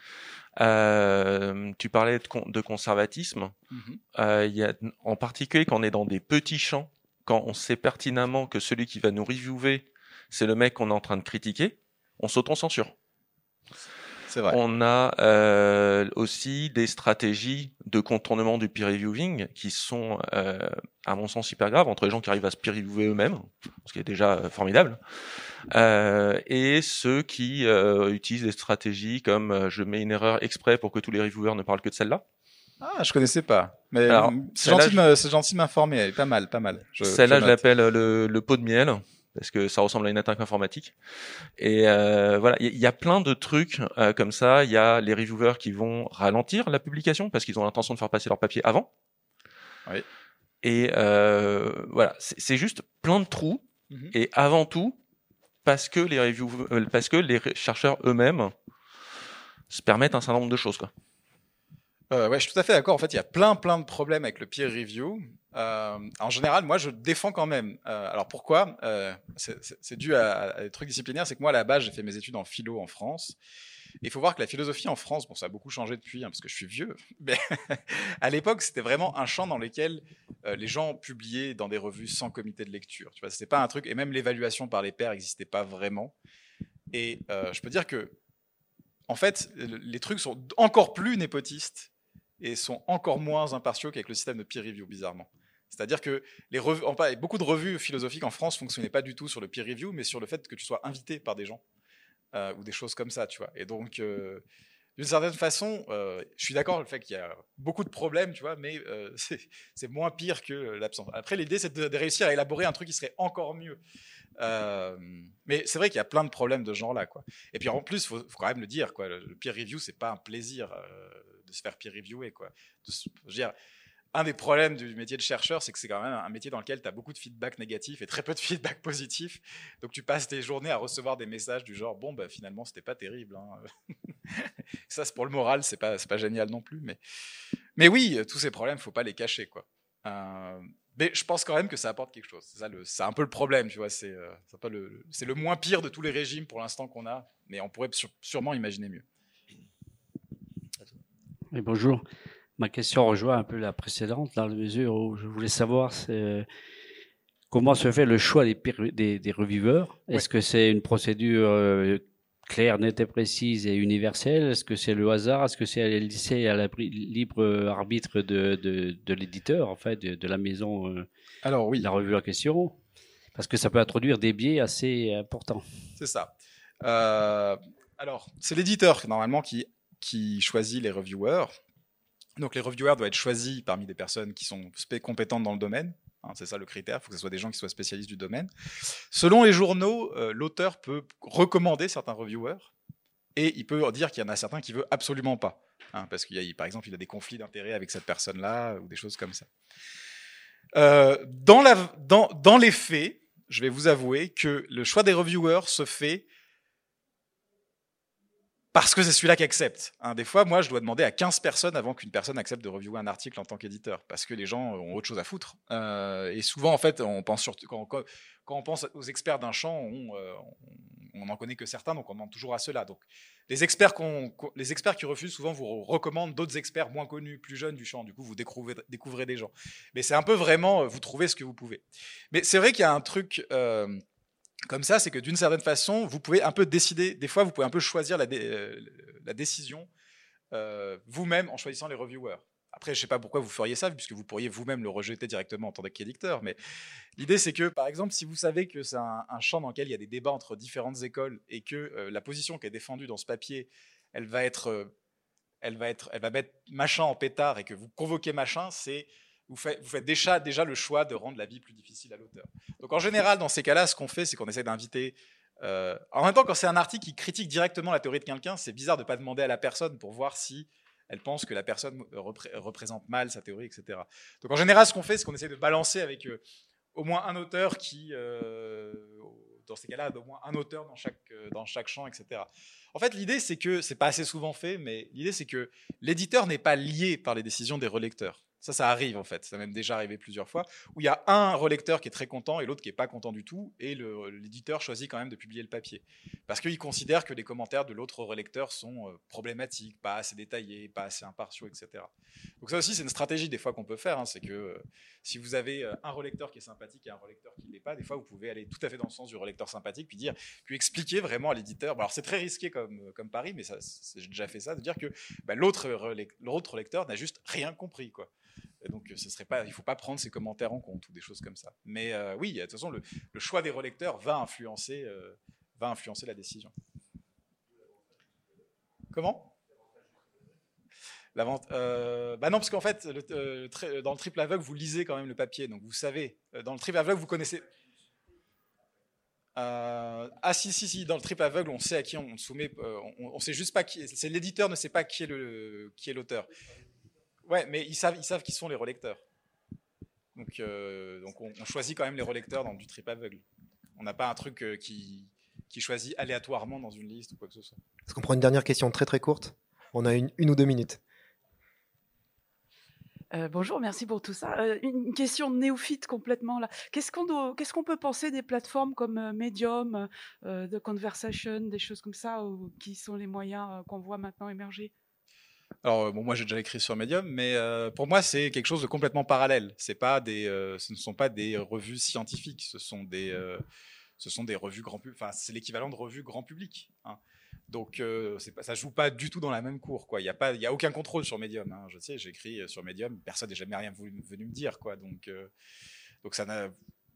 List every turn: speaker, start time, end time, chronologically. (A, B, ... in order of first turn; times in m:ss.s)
0:00.6-0:03.6 A
0:03.7-0:04.0 B
0:04.2-0:12.9 A
0:14.3-0:14.6 B
0:14.5-0:25.0 A
0:25.7-0:32.2 A
0:32.8-0:37.6 B
0:34.1-0:35.0 A
0:37.0-0:40.9 A
0:41.6-0:48.9 A
0:50.6-0:55.0 A
0:55.6-0:58.5 A
0:59.7-1:00.9 A
1:02.1-1:13.4 B
1:14.0-1:26.1 B
1:26.9-1:28.2 B
1:29.1-1:31.9 B
1:32.4-1:41.6 B
1:42.3-1:44.4 B
1:45.0-1:53.8 B
1:54.4-2:03.5 B
2:04.1-2:13.6 B
2:14.3-2:17.0 B
2:17.8-2:29.0 B
2:31.5-2:32.0 C
2:32.6-2:36.5 C
2:37.5-2:51.1 C
2:51.4-2:51.9 B
2:51.8-2:52.8 C
2:53.4-2:55.6 C
2:56.0-2:56.3 B
2:56.8-3:01.5 B
3:02.4-3:08.5 B
3:09.1-3:12.7 B
3:13.4-3:19.5 B
3:20.8-3:26.2 B
3:28.7-3:54.0 B
3:54.7-3:59.9 B
4:00.5-4:06.6 B
4:07.2-4:14.9 B
4:15.6-4:36.4 B
4:37.0-5:02.1 B
5:02.6-5:18.3 B
5:18.8-5:26.7 B
5:29.1-5:29.5 B
5:31.4-5:37.6 B
5:39.6-5:46.5 B
5:47.4-5:49.2 B
5:50.4-5:53.4 B
5:54.0-5:57.8 B
5:58.1-6:01.0 D
6:03.3-6:14.9 E
6:15.8-6:23.6 B
6:24.2-6:27.2 B
6:27.7-6:35.5 B
6:36.2-6:36.8 B